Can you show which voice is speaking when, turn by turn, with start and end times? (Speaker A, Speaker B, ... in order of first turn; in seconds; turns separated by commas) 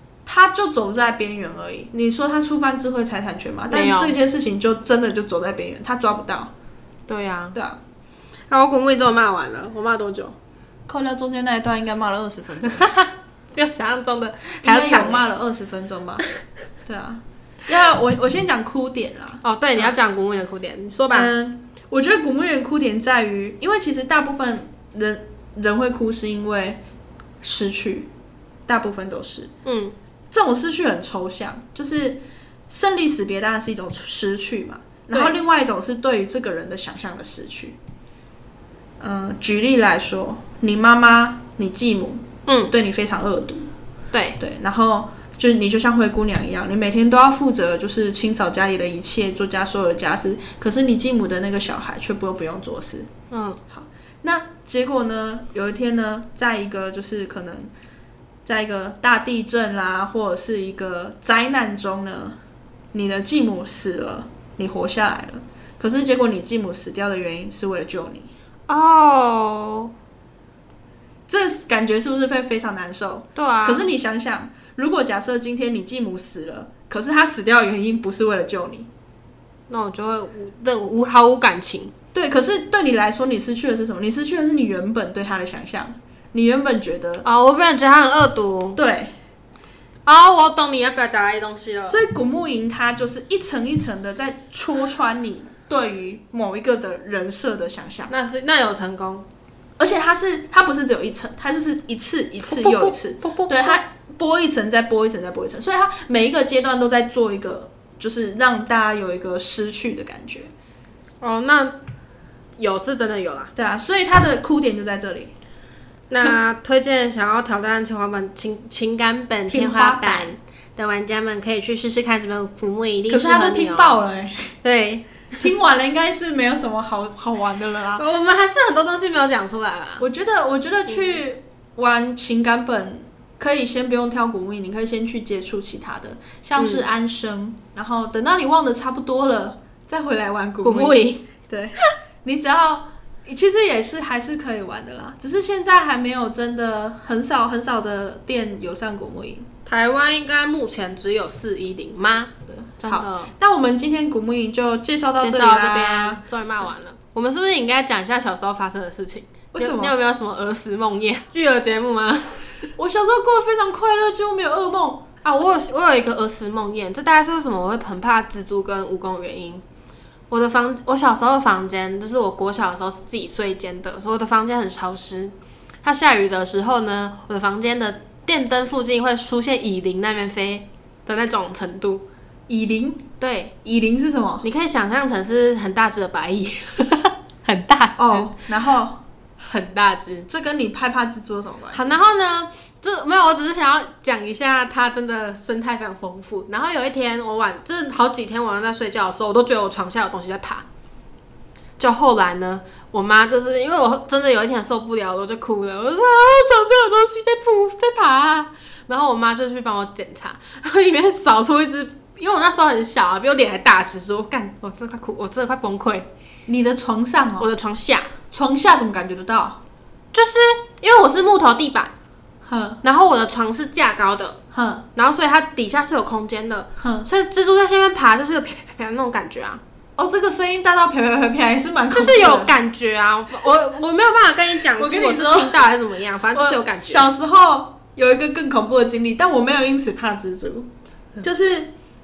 Speaker A: 0.2-6.5, Speaker B: 3.7-4.2, Speaker B: 7.1-7.5, Speaker A: 7.5-7.8, Speaker B: 8.5-10.3, Speaker A: 10.9-12.9, Speaker B: 12.8-15.2, Speaker A: 14.6-16.2, Speaker A: 16.8-19.9, Speaker B: 19.4-21.3, Speaker A: 21.1-26.8, Speaker A: 27.4-28.1, Speaker A: 28.7-29.5, Speaker B: 29.6-29.9, Speaker A: 30.3-37.8, Speaker B: 35.1-35.4, Speaker A: 39.0-43.7, Speaker B: 42.5-42.7, Speaker B: 44.1-44.4, Speaker A: 44.4-53.1, Speaker B: 53.3-53.6, Speaker A: 53.7-57.7, Speaker A: 58.4-62.4, Speaker A: 62.9-68.3, Speaker B: 68.7-69.9, Speaker A: 71.3-78.9, Speaker B: 73.3-73.9, Speaker B: 79.7-81.9, Speaker A: 82.1-87.2, Speaker B: 87.2-88.8, Speaker A: 88.7-89.1, Speaker B: 90.0-92.0, Speaker A: 91.8-98.1, Speaker B: 98.1-99.3, Speaker A: 99.8-110.5, Speaker B: 102.4-103.8, Speaker B: 111.2-111.8, Speaker B: 112.6-113.5, Speaker A: 113.5-115.3, Speaker B: 116.1-124.0, Speaker A: 119.5-120.3, Speaker A: 123.1-124.5, Speaker B: 124.6-125.2, Speaker A: 125.3-128.0, Speaker B: 128.0-130.0, Speaker A: 130.0-149.5, Speaker B: 136.6-136.8, Speaker B: 140.6-141.2, Speaker B: 149.7-153.3, Speaker A: 152.5-156.2, Speaker B: 155.2-162.7, Speaker A: 159.5-159.9, Speaker A: 162.8-165.1, Speaker B: 165.2-169.6, Speaker B: 170.3-182.1, Speaker A: 182.5-183.0, Speaker B: 183.2-183.5, Speaker A: 183.6-184.4, Speaker B: 184.4-188.3, Speaker A: 188.0-189.0, Speaker B: 189.4-190.3, Speaker A: 190.3-192.0, Speaker B: 191.7-200.7, Speaker B: 201.8-216.1, Speaker A: 216.5-217.5, Speaker B: 217.4-218.1, Speaker A: 218.3-219.6, Speaker B: 220.1-221.9, Speaker A: 222.4-222.8, Speaker B: 222.8-224.4, Speaker A: 224.5-224.8, Speaker B: 224.9-229.6, Speaker A: 226.8-227.1, Speaker A: 229.9-232.5, Speaker B: 231.9-237.1, Speaker A: 234.8-235.7, Speaker A: 236.3-240.7, Speaker A: 241.2-241.7